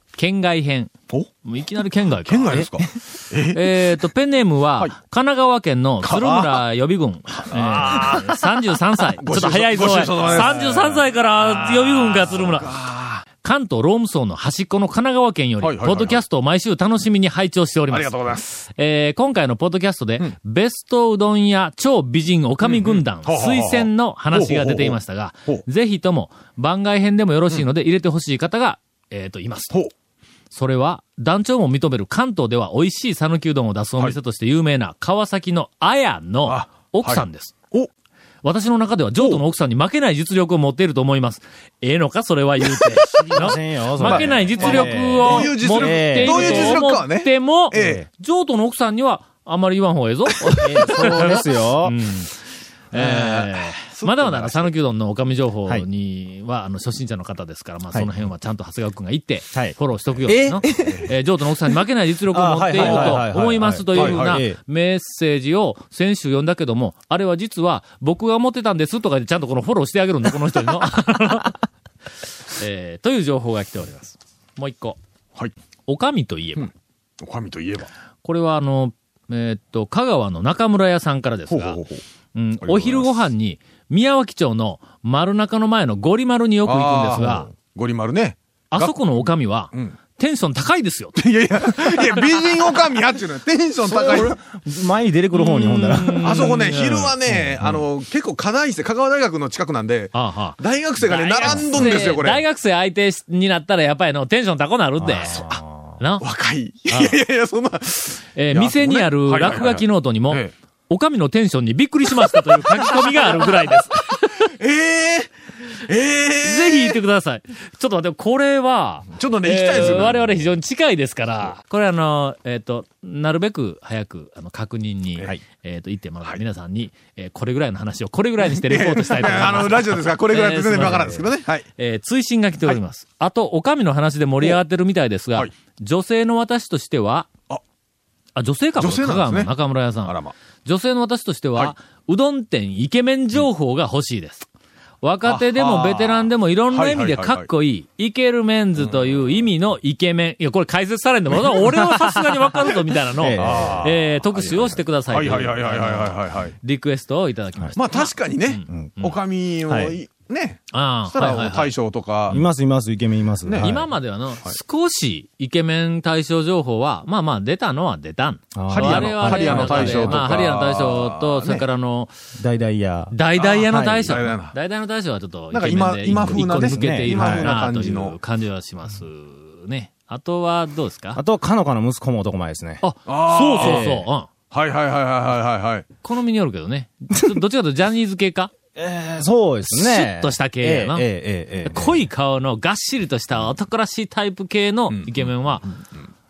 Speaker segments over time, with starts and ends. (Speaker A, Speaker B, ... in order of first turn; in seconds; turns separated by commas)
Speaker A: 0.1-0.9, Speaker A: 1.4-2.8, Speaker B: 2.2-3.9, Speaker A: 3.5-12.7, Speaker B: 6.0-6.6, Speaker B: 7.3-8.6, Speaker B: 9.2-13.2, Speaker A: 13.4-29.7, Speaker B: 15.6-16.2, Speaker B: 17.9-18.5, Speaker B: 22.6-25.6, Speaker A: 30.5-37.5, Speaker B: 36.5-37.9, Speaker A: 38.4-52.3, Speaker B: 39.2-39.4, Speaker C: 43.1-46.8, Speaker B: 43.2-48.0, Speaker C: 47.7-48.0, Speaker C: 50.6-52.2, Speaker A: 52.9-71.6, Speaker B: 52.9-54.7, Speaker C: 59.5-61.1, Speaker C: 62.3-64.6, Speaker B: 62.8-63.3, Speaker B: 63.9-64.4, Speaker A: 72.5-75.0, Speaker A: 75.9-76.7, Speaker B: 77.2-77.9, Speaker A: 78.2-81.8, Speaker B: 81.5-82.0, Speaker A: 82.3-87.5, Speaker B: 82.6-83.1, Speaker B: 86.7-90.0, Speaker A: 88.7-91.2, Speaker B: 91.2-94.3, Speaker C: 93.8-96.6, Speaker A: 95.3-97.2, Speaker B: 96.2-102.5, Speaker C: 97.2-97.8, Speaker A: 100.1-105.4, Speaker C: 101.4-102.1, Speaker C: 105.0-106.0, Speaker B: 105.2-105.5, Speaker A: 106.0-106.2, Speaker B: 106.2-110.5, Speaker A: 106.9-107.2, Speaker A: 108.4-114.3, Speaker B: 112.2-113.5, Speaker B: 114.4-115.3, Speaker B: 115.9-117.0, Speaker A: 116.4-137.3, Speaker B: 119.2-120.5, Speaker B: 128.4-131.7, Speaker A: 138.4-144.5, Speaker B: 138.8-140.3, Speaker A: 145.0-158.7, Speaker B: 145.2-147.5, Speaker B: 148.8-149.2, Speaker C: 153.2-154.8, Speaker B: 153.4-154.1, Speaker B: 155.1-156.6, Speaker B: 157.8-162.4, Speaker C: 158.7-159.1, Speaker C: 159.7-159.9, Speaker A: 160.7-161.7, Speaker C: 162.3-163.9, Speaker B: 163.5-163.9, Speaker A: 163.6-172.1, Speaker C: 168.6-170.5, Speaker B: 168.7-171.7, Speaker C: 172.4-174.3, Speaker A: 173.1-181.2, Speaker B: 173.4-174.6, Speaker B: 175.5-178.2, Speaker C: 176.2-177.6, Speaker C: 181.2-182.8, Speaker A: 182.8-184.3, Speaker B: 183.1-184.0, Speaker C: 183.6-184.1, Speaker B: 184.5-185.9, Speaker A: 186.0-188.5, Speaker C: 188.8-192.1, Speaker A: 189.7-191.1, Speaker A: 191.7-195.7, Speaker B: 194.9-196.1